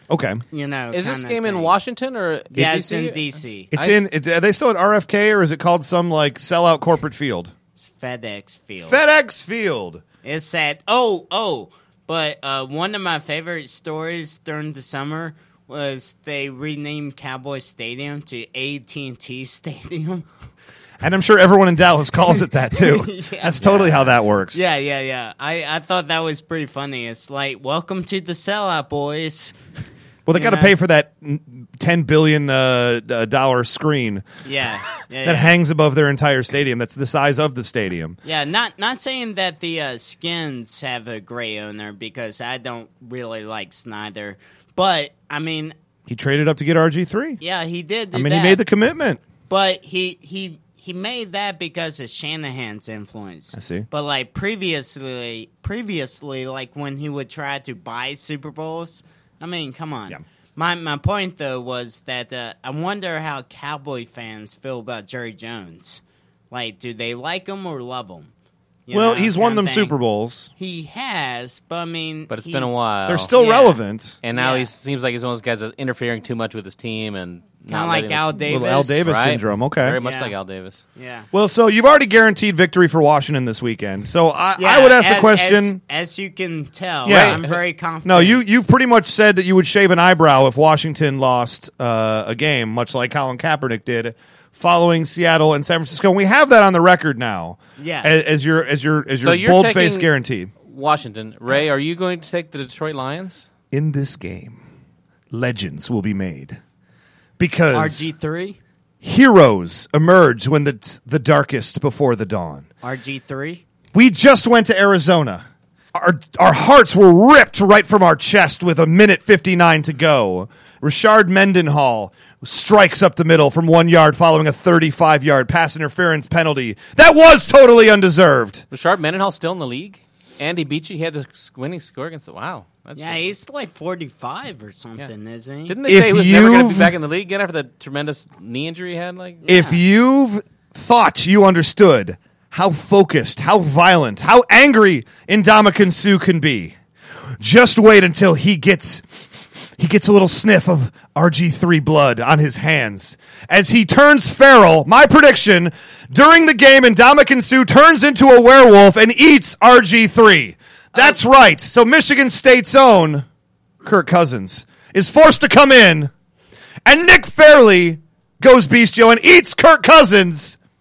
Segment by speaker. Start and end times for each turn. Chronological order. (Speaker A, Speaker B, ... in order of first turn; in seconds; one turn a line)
Speaker A: 0.1-0.4
Speaker B: 0.5-1.7
Speaker C: 0.9-4.0
Speaker B: 2.5-3.7
Speaker A: 3.7-7.5
Speaker B: 7.7-9.0
Speaker A: 8.8-10.0
Speaker B: 10.2-20.3
Speaker A: 21.0-24.6
Speaker B: 22.7-29.6
Speaker A: 30.3-34.2
Speaker B: 30.3-30.7
Speaker B: 34.4-35.5
Speaker A: 35.2-38.2
Speaker B: 38.2-45.7
Speaker A: 46.1-47.4
Speaker B: 47.4-48.6
Speaker A: 48.1-49.2
Speaker B: 49.5-68.3
Speaker A: 53.5-53.9
Speaker B: 68.9-69.9
Speaker A: 68.9-70.5
Speaker B: 70.6-73.8
Speaker C: 72.3-73.3
Speaker A: 73.1-74.2
Speaker C: 74.2-78.3
Speaker B: 74.3-74.7
Speaker B: 77.7-79.0
Speaker A: 78.4-80.0
Speaker C: 79.0-80.8
Speaker B: 80.0-80.3
Speaker B: 81.0-81.3
Speaker A: 81.3-85.8
Speaker B: 84.6-88.4
Speaker A: 87.0-87.4
Speaker C: 87.0-87.6
Speaker A: 88.0-100.5
Speaker B: 97.8-98.1
Speaker C: 99.2-100.1
Speaker C: 100.6-103.5
Speaker A: 103.7-104.6
Speaker A: 105.3-106.6
Speaker A: 107.4-108.0
Speaker B: 107.7-108.6
Speaker A: 109.0-112.7
Speaker B: 112.8-113.6
Speaker A: 113.9-128.6
Speaker C: 128.7-133.3
Speaker B: 132.9-135.8
Speaker C: 135.7-139.4
Speaker A: 135.9-136.9
Speaker B: 139.4-139.8
Speaker A: 139.5-146.8
Speaker A: 147.4-163.2
Speaker B: 160.9-161.2
Speaker A: 163.8-166.1
Speaker A: 166.8-170.6